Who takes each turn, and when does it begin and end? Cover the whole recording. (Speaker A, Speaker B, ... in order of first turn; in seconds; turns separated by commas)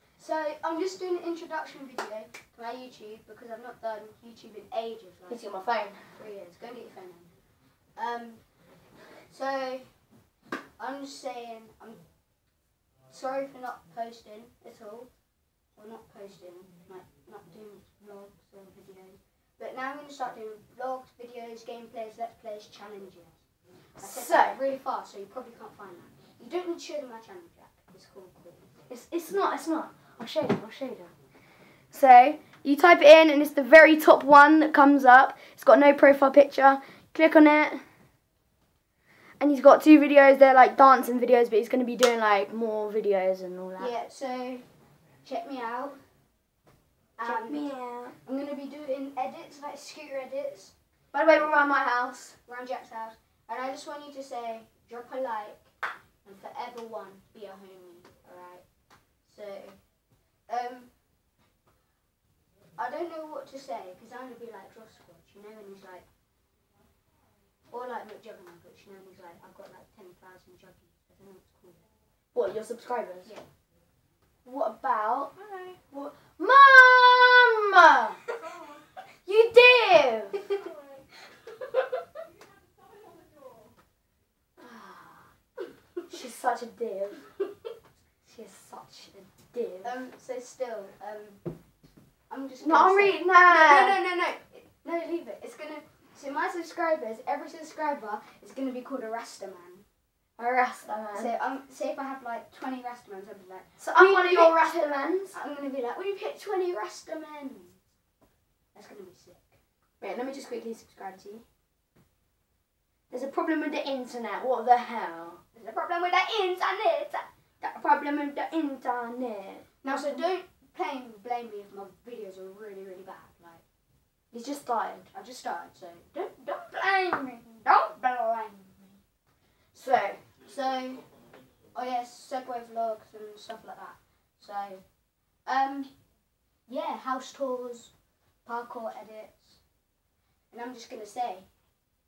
Speaker A: 0.2-5.4, Speaker B: 5.3-6.1, Speaker A: 6.1-7.3, Speaker A: 8.0-8.4, Speaker A: 9.3-9.9, Speaker A: 10.8-12.0, Speaker A: 13.1-15.1, Speaker A: 15.8-23.4, Speaker A: 24.0-28.7, Speaker B: 24.0-24.6, Speaker B: 28.9-31.1, Speaker B: 31.9-37.8, Speaker B: 39.4-43.9, Speaker A: 43.8-44.6, Speaker A: 45.2-46.0, Speaker A: 47.2-47.7, Speaker B: 47.2-48.1, Speaker A: 48.2-50.7, Speaker B: 51.1-52.4, Speaker A: 52.5-55.7, Speaker A: 56.2-58.6, Speaker A: 59.3-59.8, Speaker A: 60.5-60.9, Speaker A: 62.8-66.0, Speaker A: 67.7-71.8, Speaker B: 72.3-73.3, Speaker B: 74.5-78.2, Speaker B: 79.3-80.4, Speaker B: 84.6-85.3, Speaker B: 86.1-87.2, Speaker B: 88.3-89.9, Speaker A: 89.8-91.4, Speaker A: 92.3-99.8, Speaker B: 92.6-94.0, Speaker B: 100.4-101.3, Speaker A: 101.1-104.7, Speaker B: 103.8-105.4, Speaker A: 105.3-107.8, Speaker A: 108.7-109.6, Speaker B: 110.0-111.4, Speaker B: 113.1-115.4, Speaker A: 115.5-117.3, Speaker B: 117.6-120.2, Speaker A: 119.8-123.6, Speaker B: 124.3-125.1, Speaker A: 125.1-129.0, Speaker B: 129.7-130.2, Speaker A: 130.4-131.1, Speaker A: 131.7-134.8, Speaker A: 135.5-135.9, Speaker A: 136.7-137.9, Speaker A: 138.4-139.6, Speaker A: 140.5-141.5